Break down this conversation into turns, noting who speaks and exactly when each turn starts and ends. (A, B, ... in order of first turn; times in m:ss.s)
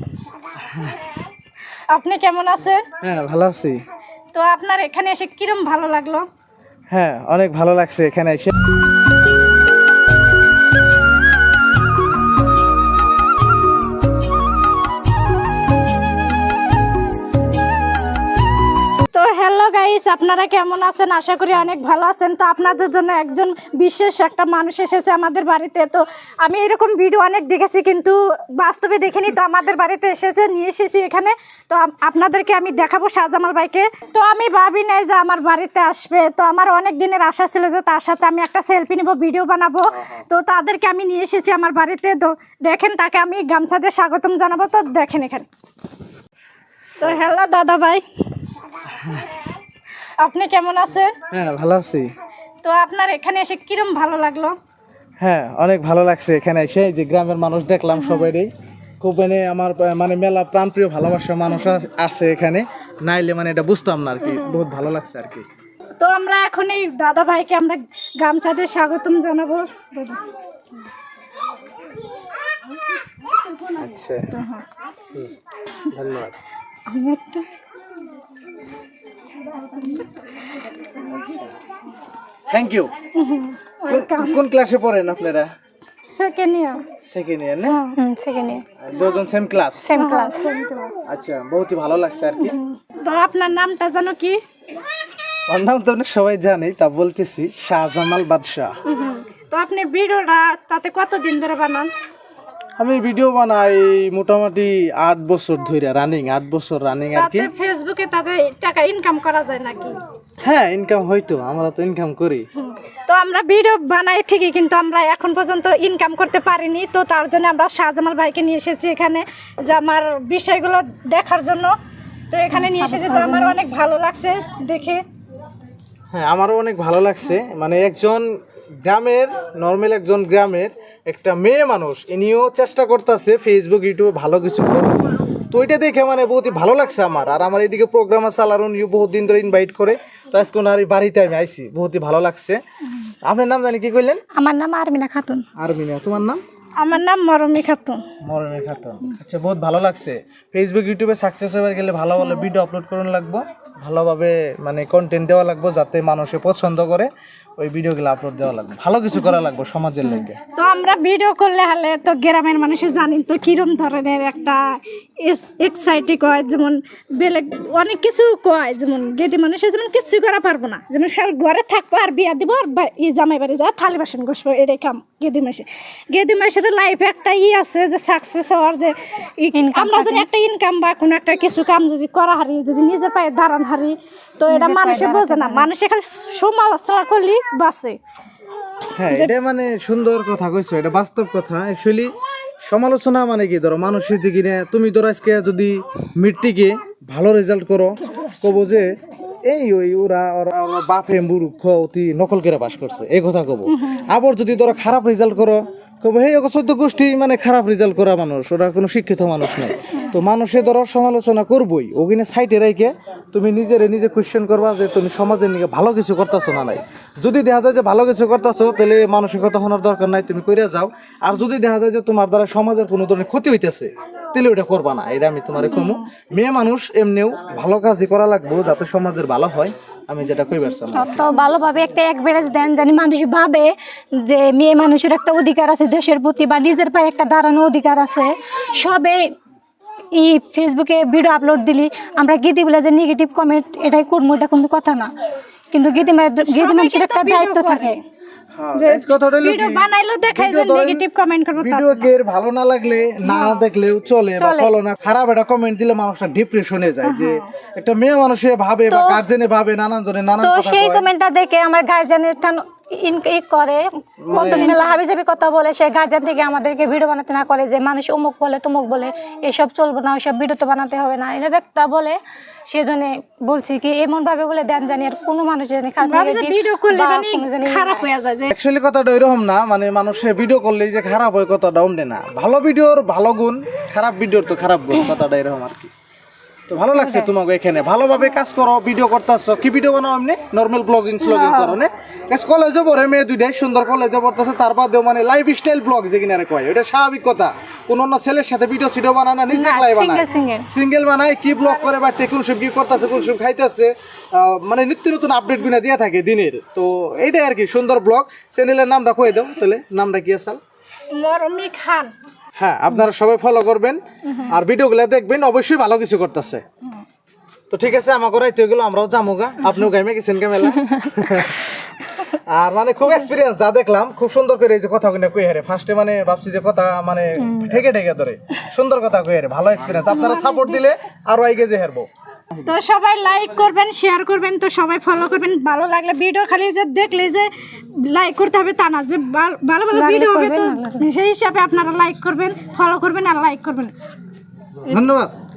0:00.6-0:01.0 A
0:01.9-0:02.8 B
0:03.0-0:03.8 A
0:04.3-0:06.2 B
0:06.9-0:08.5 A
0:19.1-0:45.5 B
0:47.0-0:48.0 B
0:49.0-0:49.2 A
0:50.2-0:51.1 B
0:51.3-0:52.1 A
0:52.6-0:54.6 B
0:55.2-1:05.4 A
0:58.0-0:58.3 B
1:04.3-1:04.6 B
1:06.0-1:10.2 B
1:13.8-1:14.3 A
1:14.3-1:14.7 B
1:15.9-1:16.4 A
1:16.9-1:17.4 B
1:19.7-1:20.0 B
1:21.1-1:21.5 A
1:22.5-1:22.9 A
1:23.2-1:24.4 B
1:23.9-1:25.5 A
1:26.1-1:26.8 B
1:27.0-1:27.8 A
1:27.6-1:28.0 B
1:28.0-1:28.6 C
1:28.8-1:29.9 A
1:29.9-1:30.4 C
1:29.9-1:31.0 B
1:31.1-1:32.6 A
1:32.4-1:34.4 B
1:35.5-1:38.7 A
1:38.9-1:41.9 B
1:42.8-1:47.5 A
1:47.2-1:50.0 B
1:50.4-1:52.4 A
1:52.6-2:01.7 B
2:02.3-2:05.0 B
2:02.5-2:03.6 C
2:06.1-2:08.2 A
2:08.8-2:22.6 A
2:23.3-2:24.2 A
2:24.4-2:25.4 C
2:25.6-2:26.4 A
2:26.8-2:28.0 B
2:28.2-2:40.4 A
2:40.6-2:44.6 B
2:45.2-3:08.0 B
2:59.6-3:00.3 C
3:04.5-3:05.7 C
3:09.0-3:12.1 A
3:12.7-3:18.9 A
3:19.4-3:51.3 A
3:23.7-3:24.0 B
3:45.6-3:46.1 B
3:51.0-3:53.7 C
3:54.2-3:59.2 C
4:00.2-4:05.1 C
4:05.7-4:08.0 C
4:06.5-4:08.0 B
4:08.6-4:11.0 A
4:08.8-4:12.1 B
4:11.6-4:21.1 A
4:14.4-4:14.7 C
4:17.0-4:17.5 B
4:18.9-4:19.2 C
4:20.4-4:38.0 C
4:24.2-4:24.8 A
4:24.4-4:24.7 B
4:36.0-4:38.5 B
4:38.5-4:45.9 A
4:46.7-5:10.6 A
4:46.9-4:47.3 C
4:51.2-4:51.8 C
4:59.5-5:00.7 C
5:11.1-5:12.1 B
5:12.6-5:16.6 A
5:17.7-5:21.7 A
5:20.8-5:21.1 C
5:22.3-5:32.1 A
5:27.4-5:27.7 C
5:30.1-5:30.8 B
5:32.6-5:43.9 B
5:39.9-5:41.0 C
5:44.9-5:45.4 A